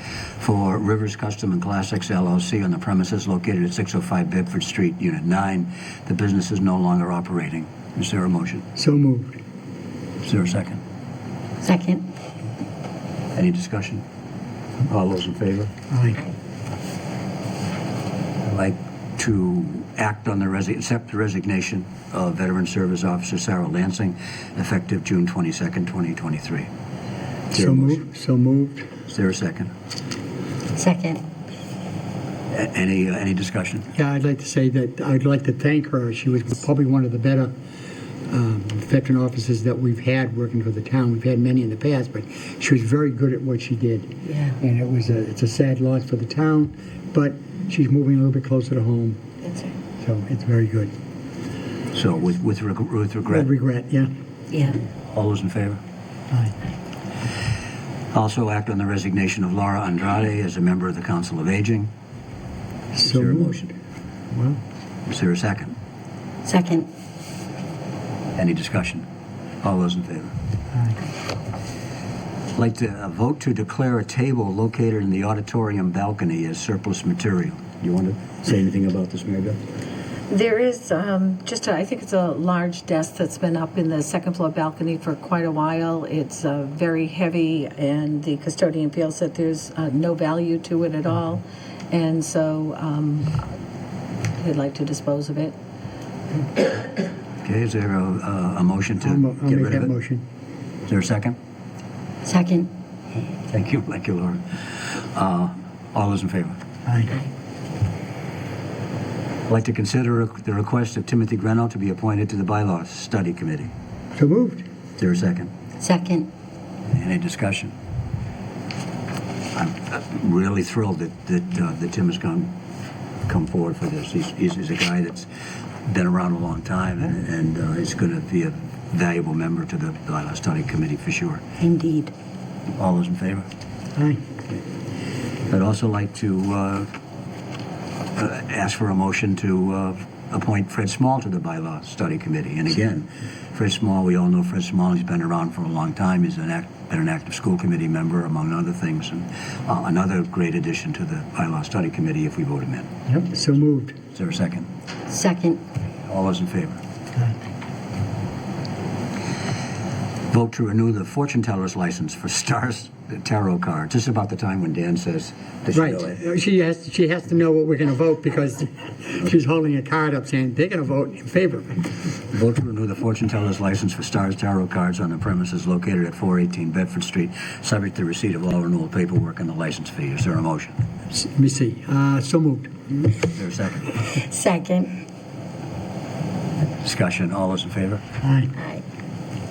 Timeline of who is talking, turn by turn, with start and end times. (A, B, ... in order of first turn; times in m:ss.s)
0:00.4-0:08.6 A
0:08.7-0:09.4 B
0:10.2-0:10.8 A
0:11.6-0:12.1 C
0:13.3-0:14.0 A
0:14.9-0:15.7 A
0:15.9-0:16.2 B
0:18.4-0:26.7 A
0:27.5-0:28.0 A
0:27.5-0:28.9 B
0:29.1-0:29.7 A
0:30.8-0:31.2 C
0:32.5-0:33.9 A
0:33.9-0:37.5 B
0:38.3-0:49.2 B
0:49.4-0:49.7 C
0:50.0-0:50.9 B
0:51.9-0:53.5 A
0:53.3-0:54.1 B
0:54.5-0:54.8 C
0:55.1-0:55.8 A
0:58.1-1:01.9 A
1:02.9-1:03.5 B
1:03.0-1:03.7 A
1:04.3-1:04.6 B
1:05.1-1:05.7 A
1:06.4-1:06.9 C
1:08.4-1:09.0 A
1:09.6-1:10.3 A
1:10.7-1:11.0 B
1:12.5-1:19.6 A
1:20.3-1:33.4 D
1:34.4-1:35.5 D
1:37.4-1:39.9 A
1:39.0-1:40.2 B
1:40.9-1:41.4 A
1:42.2-1:42.7 C
1:43.5-1:46.6 A
1:46.8-1:47.2 B
1:49.5-1:53.7 A
1:54.2-1:54.6 B
1:55.0-1:55.5 A
1:55.8-1:56.3 C
1:56.9-1:57.7 A
1:59.5-2:02.5 A
2:03.3-2:05.3 A
2:05.8-2:11.4 A
2:11.6-2:12.1 C
2:12.8-2:13.5 A
2:15.5-2:16.9 A
2:18.2-2:32.9 A
2:33.1-2:34.0 B
2:34.1-2:34.7 A
2:35.1-2:35.6 C
2:36.1-2:36.8 A
2:40.3-2:46.2 A
2:45.7-2:51.8 B
2:52.3-3:00.8 A
3:01.1-3:02.7 B
3:03.2-3:04.0 A
3:04.2-3:05.0 C
3:06.8-3:08.0 A
3:08.2-3:08.5 B
3:08.6-3:08.8 C